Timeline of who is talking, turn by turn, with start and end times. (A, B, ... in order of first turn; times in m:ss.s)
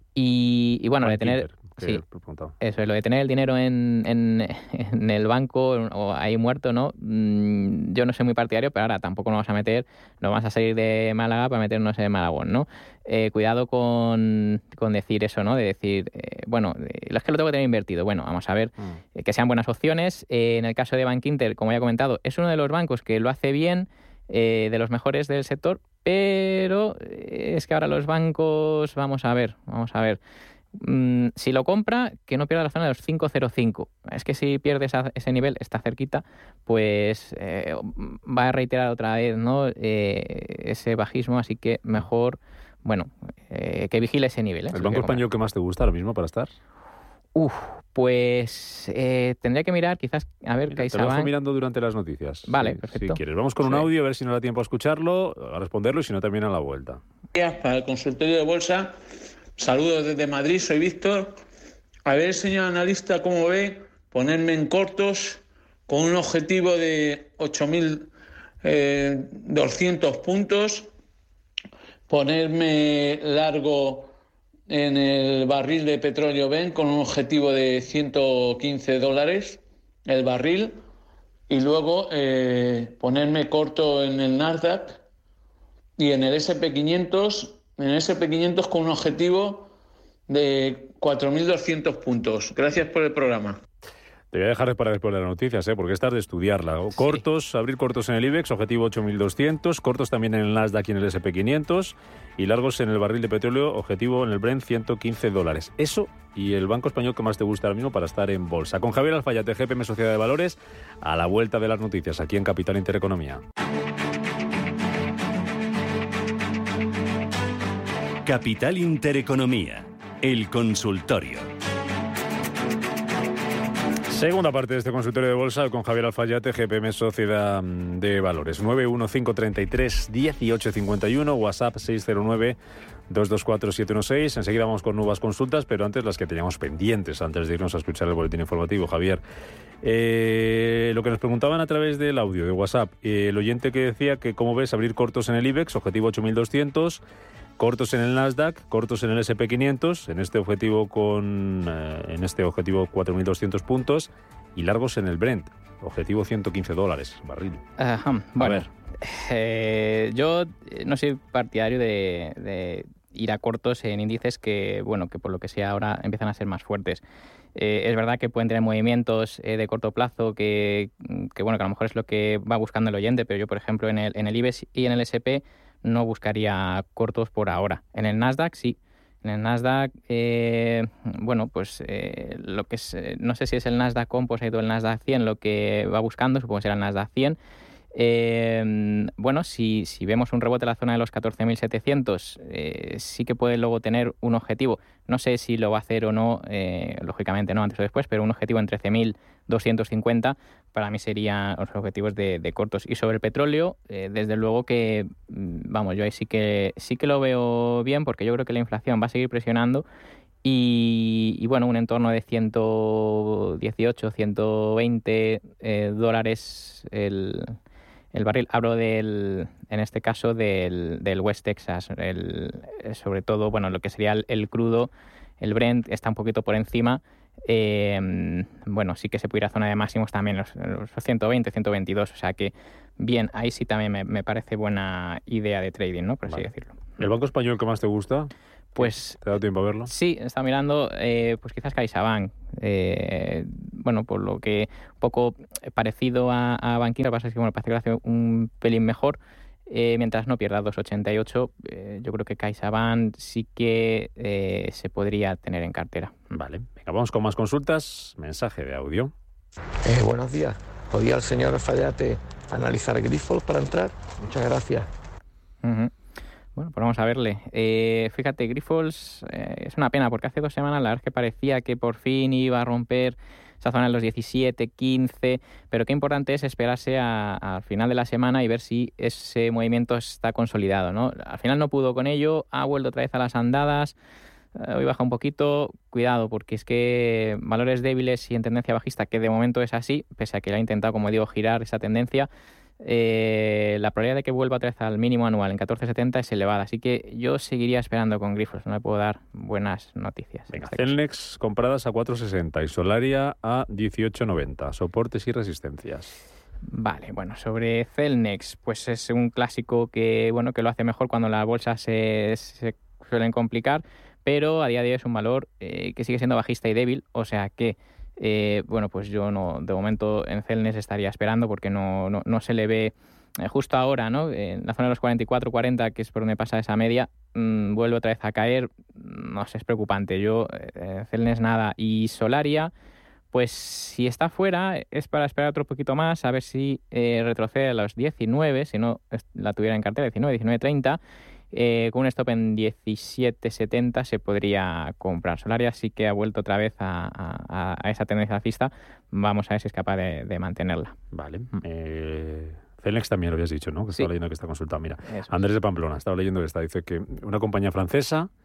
0:00.2-0:02.0 A
0:01.0-0:02.5 B
0:02.6-0:30.2 A
0:30.7-0:45.2 A
0:44.7-0:46.5 B
0:47.3-0:51.3 A
0:50.7-0:57.0 B
0:52.5-0:53.9 A
0:57.3-0:58.9 C
0:59.6-1:01.4 C
1:02.0-1:08.1 C
1:08.6-1:10.9 C
1:12.1-1:14.1 C
1:14.7-1:20.8 C
1:21.5-1:25.0 C
1:26.0-1:29.7 C
1:30.3-1:33.6 C
1:34.3-1:53.4 B
1:58.2-2:01.5 D
2:04.1-2:12.6 B
2:13.1-2:19.2 B
2:19.8-2:27.0 B
2:27.6-2:37.6 B
2:37.8-2:47.0 A
2:38.4-2:38.6 B
2:47.5-3:07.4 A
3:07.9-3:29.8 A
3:30.4-3:37.6 A
3:38.1-3:56.8 A
3:56.3-3:59.9 B
3:58.8-3:59.2 A
3:59.9-4:16.1 A
4:16.3-4:19.1 B
4:19.8-4:24.9 E
4:25.6-4:25.9 A
4:26.6-4:43.9 A
4:44.6-4:52.3 A
4:52.8-5:00.9 A
5:00.5-5:06.2 B
5:06.7-5:32.7 A
5:33.3-5:41.0 A
5:41.5-5:50.9 A
5:51.1-5:58.3 B
5:55.1-5:55.3 A